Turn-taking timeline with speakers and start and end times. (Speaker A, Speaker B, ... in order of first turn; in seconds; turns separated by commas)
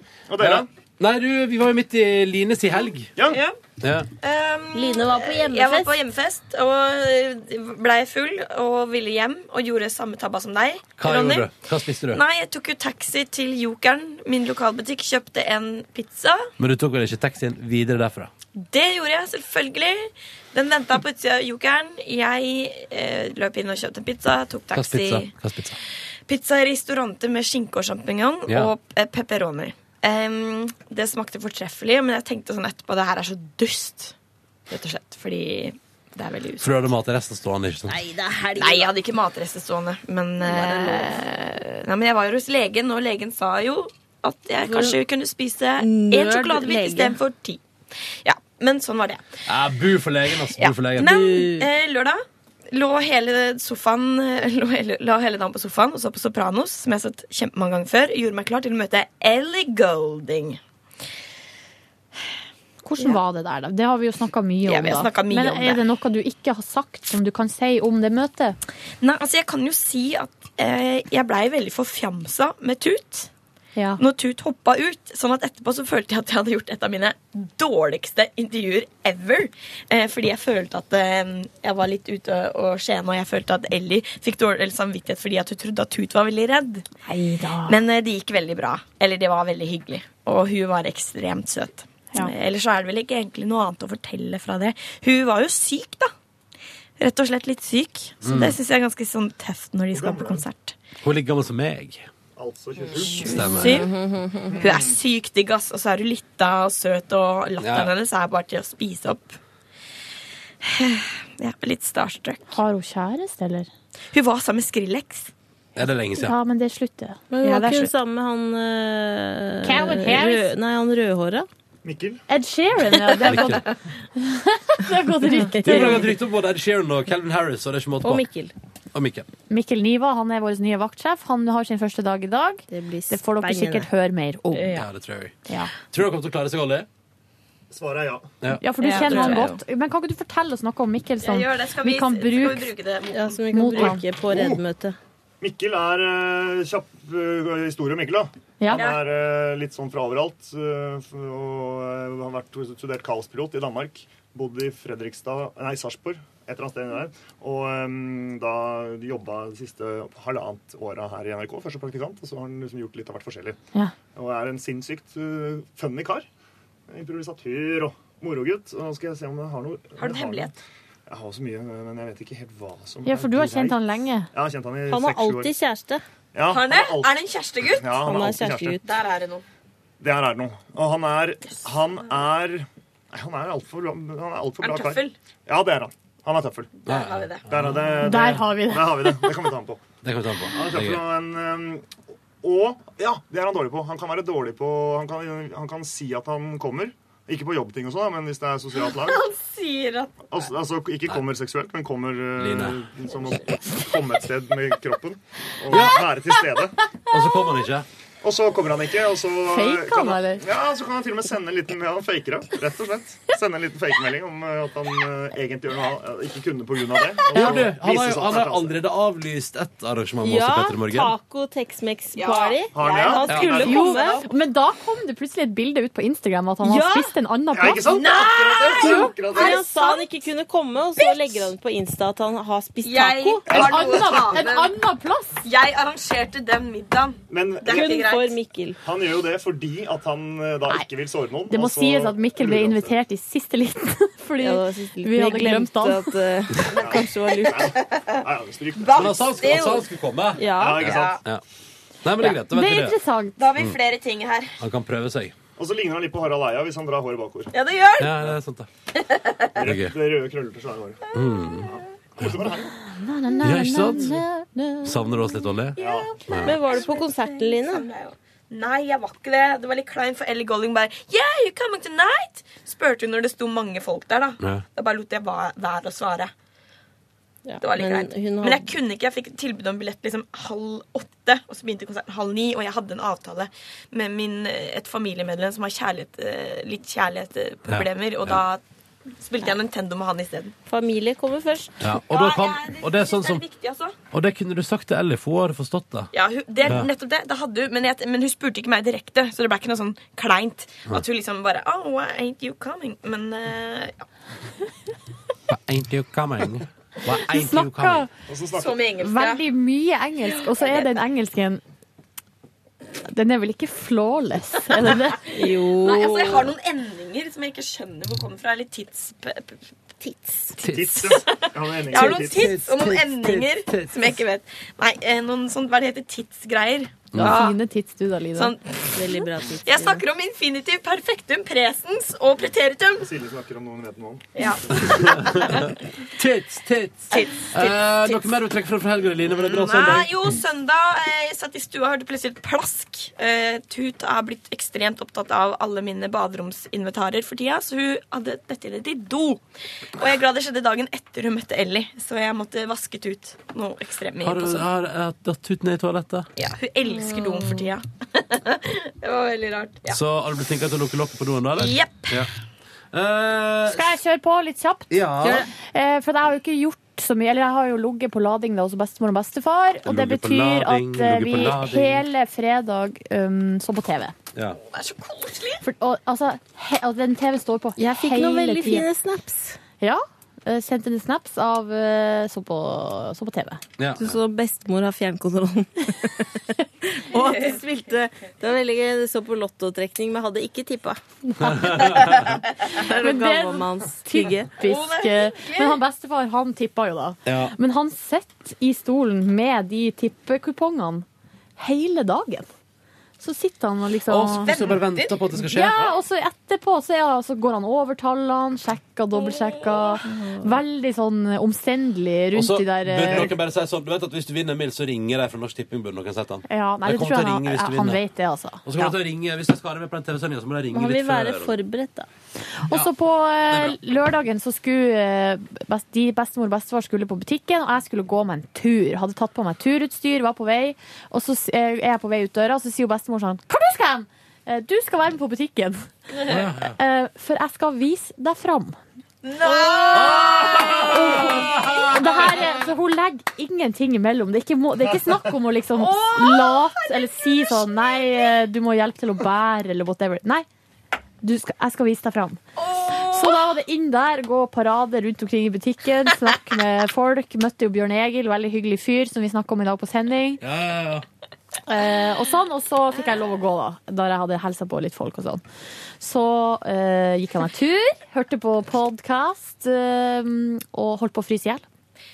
Speaker A: 0.3-0.7, Speaker B: 0.4-3.1, Speaker A: 3.1-3.4, Speaker C: 3.2-3.6, Speaker B: 3.8-4.1, Speaker C: 4.2-11.5, Speaker D: 4.7-5.9, Speaker B: 11.0-12.2, Speaker C: 12.1-16.5, Speaker B: 16.6-18.3, Speaker C: 18.5-25.3, Speaker B: 24.7-25.8, Speaker C: 26.3-34.1, Speaker B: 28.5-28.7, Speaker C: 34.7-36.7, Speaker B: 36.6-38.0, Speaker D: 37.9-38.9, Speaker C: 38.6-47.6, Speaker D: 40.4-41.2, Speaker D: 44.6-45.0, Speaker D: 45.8-47.2, Speaker C: 48.2-49.3, Speaker B: 49.5-51.1, Speaker C: 50.5-60.6, Speaker D: 51.0-51.7, Speaker E: 62.8-68.6, Speaker C: 64.6-65.8, Speaker C: 69.0-73.3, Speaker E: 73.8-74.0, Speaker C: 74.0-86.8, Speaker E: 87.0-87.8, Speaker C: 87.7-96.1, Speaker C: 97.0-100.7, Speaker B: 98.2-98.6, Speaker A: 99.9-100.5, Speaker B: 101.0-102.1, Speaker A: 102.3-103.4, Speaker C: 103.0-103.9, Speaker B: 103.2-103.9, Speaker D: 103.7-104.5, Speaker A: 104.5-105.0, Speaker C: 104.5-109.4, Speaker B: 107.6-107.9, Speaker C: 110.6-112.6, Speaker E: 112.5-113.7, Speaker C: 114.1-115.3, Speaker B: 115.7-116.4, Speaker E: 116.1-117.9, Speaker D: 117.3-121.5, Speaker C: 117.5-117.8, Speaker E: 119.6-120.5, Speaker A: 121.8-122.2, Speaker E: 122.3-126.1, Speaker B: 123.2-123.6, Speaker B: 125.5-128.3, Speaker D: 125.7-126.0, Speaker D: 128.0-128.5, Speaker B: 128.9-129.3, Speaker E: 129.5-134.8, Speaker D: 132.7-133.9, Speaker B: 134.7-135.3, Speaker B: 135.9-136.9, Speaker A: 137.7-138.3, Speaker E: 138.6-142.7, Speaker C: 138.8-139.6, Speaker D: 139.0-139.4, Speaker C: 141.2-143.8, Speaker D: 143.1-145.0, Speaker E: 143.5-144.0, Speaker A: 144.2-144.6, Speaker A: 145.4-163.6, Speaker E: 148.6-148.8, Speaker C: 148.7-149.0, Speaker A: 164.1-166.3, Speaker A: 166.9-170.5, Speaker C: 170.0-170.5, Speaker A: 171.1-175.5, Speaker E: 173.0-174.3, Speaker D: 174.9-176.0, Speaker A: 176.3-178.8, Speaker C: 176.4-177.9, Speaker D: 178.0-178.8, Speaker C: 178.8-179.4, Speaker A: 180.0-186.7, Speaker C: 184.6-185.1, Speaker C: 186.8-187.4, Speaker B: 186.9-187.8, Speaker A: 187.5-189.8, Speaker E: 188.0-189.4, Speaker B: 190.0-191.0, Speaker A: 190.5-191.9, Speaker A: 192.4-199.3, Speaker C: 198.8-200.4, Speaker A: 200.2-206.8, Speaker B: 202.4-202.8, Speaker B: 205.7-206.0, Speaker B: 207.1-207.8, Speaker A: 208.2-218.8, Speaker E: 209.5-210.4, Speaker B: 217.3-221.1, Speaker D: 220.2-224.2, Speaker C: 222.1-224.3, Speaker A: 222.7-223.9, Speaker B: 223.3-223.5, Speaker E: 223.6-228.0, Speaker D: 226.6-227.1, Speaker A: 227.5-229.6, Speaker C: 227.8-230.1, Speaker E: 228.8-229.1, Speaker D: 229.3-233.4, Speaker C: 231.0-231.5, Speaker C: 232.8-234.8, Speaker A: 233.5-234.3, Speaker E: 233.5-235.4, Speaker C: 235.4-238.4, Speaker A: 237.3-237.9, Speaker D: 237.7-238.8, Speaker A: 238.8-243.0, Speaker E: 241.5-246.1, Speaker D: 244.4-247.7, Speaker A: 246.8-249.4, Speaker C: 246.8-248.2, Speaker C: 248.8-249.9, Speaker B: 248.9-251.4, Speaker D: 250.3-250.8, Speaker A: 250.5-251.2, Speaker C: 250.7-251.2, Speaker B: 252.0-253.0, Speaker E: 252.2-253.4, Speaker C: 253.4-254.6, Speaker B: 254.6-255.3, Speaker A: 255.6-257.6, Speaker C: 257.5-258.2, Speaker B: 258.0-258.7, Speaker C: 258.9-259.5, Speaker A: 259.5-261.0, Speaker B: 259.6-260.0, Speaker B: 261.1-262.4, Speaker A: 261.6-262.7, Speaker E: 262.7-265.1, Speaker B: 263.4-264.2, Speaker B: 264.8-266.7, Speaker A: 265.8-266.1, Speaker C: 265.8-276.3, Speaker D: 266.4-267.9, Speaker D: 277.5-278.7, Speaker C: 277.6-288.6, Speaker B: 287.7-288.4, Speaker C: 289.2-290.5, Speaker D: 290.7-291.8, Speaker B: 291.8-293.4, Speaker C: 292.1-293.9, Speaker B: 294.1-296.1, Speaker C: 296.1-304.0, Speaker B: 305.5-308.1, Speaker E: 307.3-308.1, Speaker A: 308.3-308.8, Speaker C: 308.5-309.4, Speaker E: 309.0-311.6, Speaker C: 310.4-310.9, Speaker E: 313.1-315.2, Speaker C: 314.8-319.6, Speaker D: 315.3-316.5, Speaker D: 320.0-320.5, Speaker B: 320.6-321.1, Speaker A: 320.7-322.5, Speaker C: 321.0-327.6, Speaker B: 321.9-324.2, Speaker B: 327.1-327.4, Speaker E: 327.2-328.5, Speaker C: 328.3-333.1, Speaker D: 328.9-330.0, Speaker A: 333.0-335.3, Speaker C: 334.3-335.7, Speaker B: 334.9-335.6, Speaker B: 336.2-340.3, Speaker C: 337.1-338.2, Speaker C: 339.3-349.4, Speaker C: 350.0-354.6, Speaker B: 354.2-356.3, Speaker C: 356.4-360.0, Speaker D: 356.9-357.7, Speaker B: 359.9-362.3, Speaker C: 361.6-362.2, Speaker B: 362.9-364.0, Speaker E: 363.7-364.9, Speaker B: 364.9-365.5, Speaker D: 365.2-365.5, Speaker E: 365.6-374.1, Speaker B: 369.8-372.0, Speaker C: 374.6-375.6, Speaker E: 375.6-378.9, Speaker D: 377.8-379.6, Speaker E: 379.8-383.6, Speaker B: 383.8-384.2, Speaker D: 383.9-394.5, Speaker C: 387.2-387.6, Speaker B: 391.4-392.1, Speaker E: 392.8-401.1, Speaker C: 394.6-395.8, Speaker B: 397.2-397.5, Speaker E: 401.6-402.5, Speaker E: 403.2-404.5, Speaker B: 404.1-405.8, Speaker C: 404.4-405.3, Speaker E: 405.4-413.3, Speaker C: 409.1-410.0, Speaker B: 412.3-418.0, Speaker E: 416.5-418.9, Speaker B: 418.6-421.6, Speaker D: 420.7-422.1, Speaker E: 422.6-438.8, Speaker B: 423.5-423.8, Speaker B: 436.2-436.8, Speaker C: 439.2-442.4, Speaker E: 439.4-450.4, Speaker B: 439.9-442.3, Speaker A: 444.9-445.3, Speaker C: 445.7-448.2, Speaker E: 451.2-460.4, Speaker C: 452.6-453.4, Speaker B: 460.4-461.0, Speaker E: 461.7-465.4, Speaker E: 466.0-471.6